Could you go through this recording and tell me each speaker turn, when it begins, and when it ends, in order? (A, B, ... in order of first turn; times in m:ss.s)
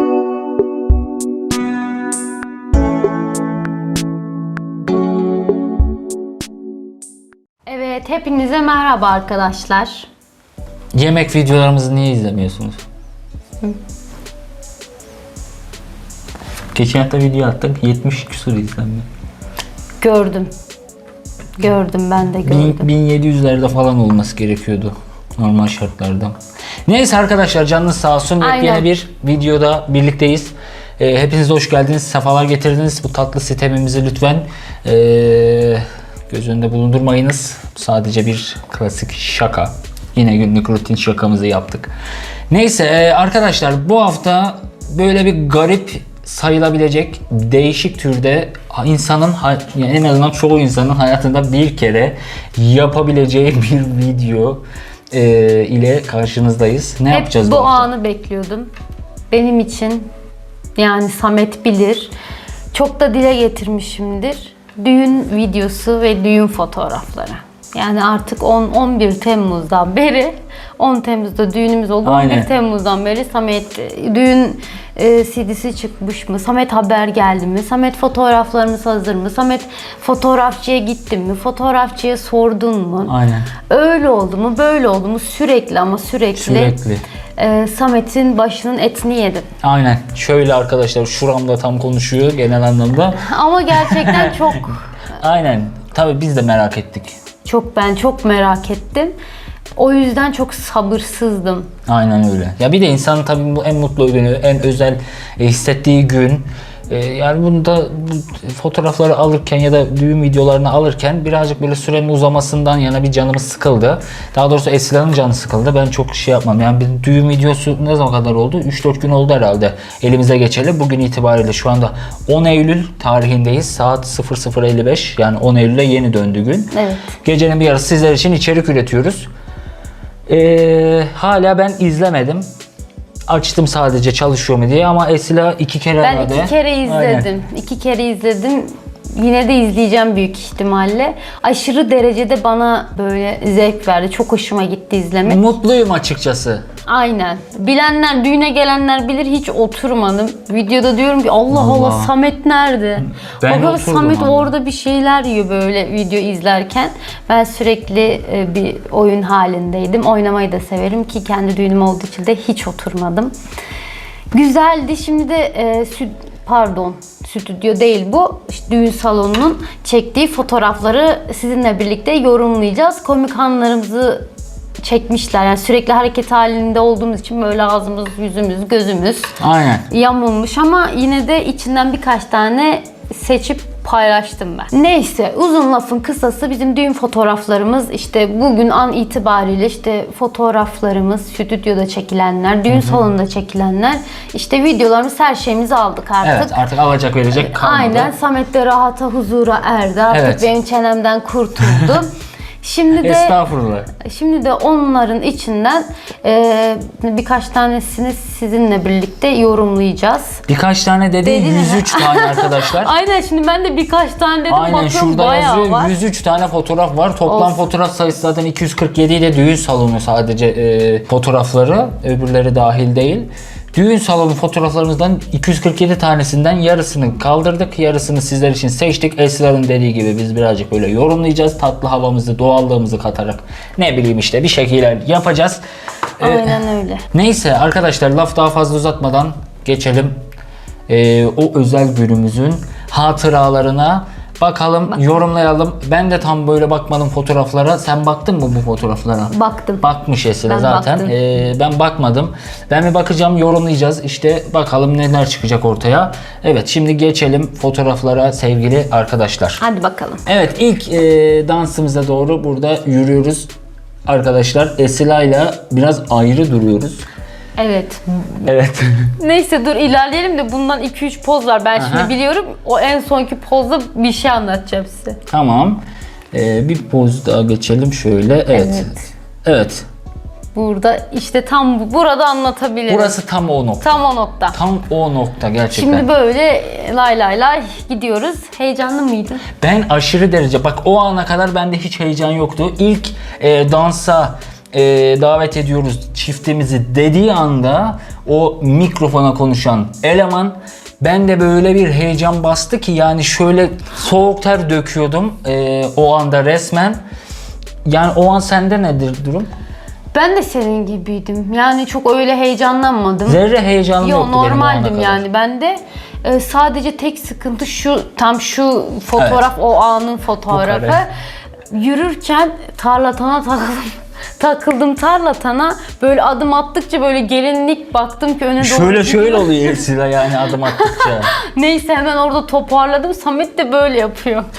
0:07.7-0:10.1 A
0:10.9-0:12.8 B
0:16.7-0:19.0 B
0:20.0-0:20.5 A
0:21.6-0:22.9 A
0:22.4-0:26.3 B
0:26.9-0:41.9 B
0:28.4-0:28.9 A
0:42.5-0:54.6 B
0:55.1-0:57.9 B
0:57.1-0:58.7 A
0:59.3-1:00.1 A
1:00.8-1:02.1 A
1:02.7-1:23.1 A
1:12.0-1:12.5 B
1:23.1-1:23.5 B
1:23.7-1:26.8 A
1:26.4-1:27.0 B
1:27.4-1:29.4 A
1:29.6-1:34.4 B
1:33.2-1:34.8 A
1:35.2-1:37.1 B
1:37.4-1:39.2 A
1:39.8-1:41.7 A
1:41.8-2:09.3 B
2:06.7-2:07.1 A
2:10.3-2:12.4 B
2:13.3-2:17.3 B
2:16.0-2:25.5 A
2:25.2-2:26.6 B
2:26.9-2:43.3 A
2:31.5-2:32.1 B
2:33.2-2:34.5 B
2:44.3-2:54.3 A
2:54.8-2:59.3 A
2:59.4-2:59.8 B
2:59.9-3:16.6 A
3:12.7-3:13.0 B
3:16.2-3:18.1 B
3:17.3-3:22.1 A
3:20.1-3:20.5 B
3:22.6-3:23.4 A
3:23.0-3:23.9 B
3:24.0-3:30.4 A
3:30.5-3:32.9 B
3:31.2-3:35.9 A
3:34.5-3:55.6 B
3:37.3-3:37.6 A
3:56.2-3:56.6 B
3:56.2-3:57.0 A
3:57.1-4:00.2 B
4:00.9-4:19.6 B
4:09.3-4:09.8 A
4:10.4-4:11.1 A
4:19.6-4:20.2 A
4:20.2-4:23.5 B
4:24.0-4:27.0 B
4:27.6-4:28.5 A
4:28.4-4:29.1 B
4:29.2-4:35.2 A
4:31.8-4:32.1 B
4:35.3-4:35.8 B
4:36.3-4:39.8 B
4:38.5-4:39.0 A
4:40.5-4:43.2 A
4:42.9-4:46.0 B
4:43.8-4:44.6 A
4:45.7-4:49.4 A
4:49.6-5:07.0 B
5:07.8-5:09.5 B
5:10.1-5:13.4 A
5:13.3-5:15.2 B
5:14.0-5:21.1 A
5:19.2-5:19.4 B
5:20.5-5:21.0 B
5:21.7-5:29.8 A
5:28.6-5:31.3 B
5:30.7-5:34.5 A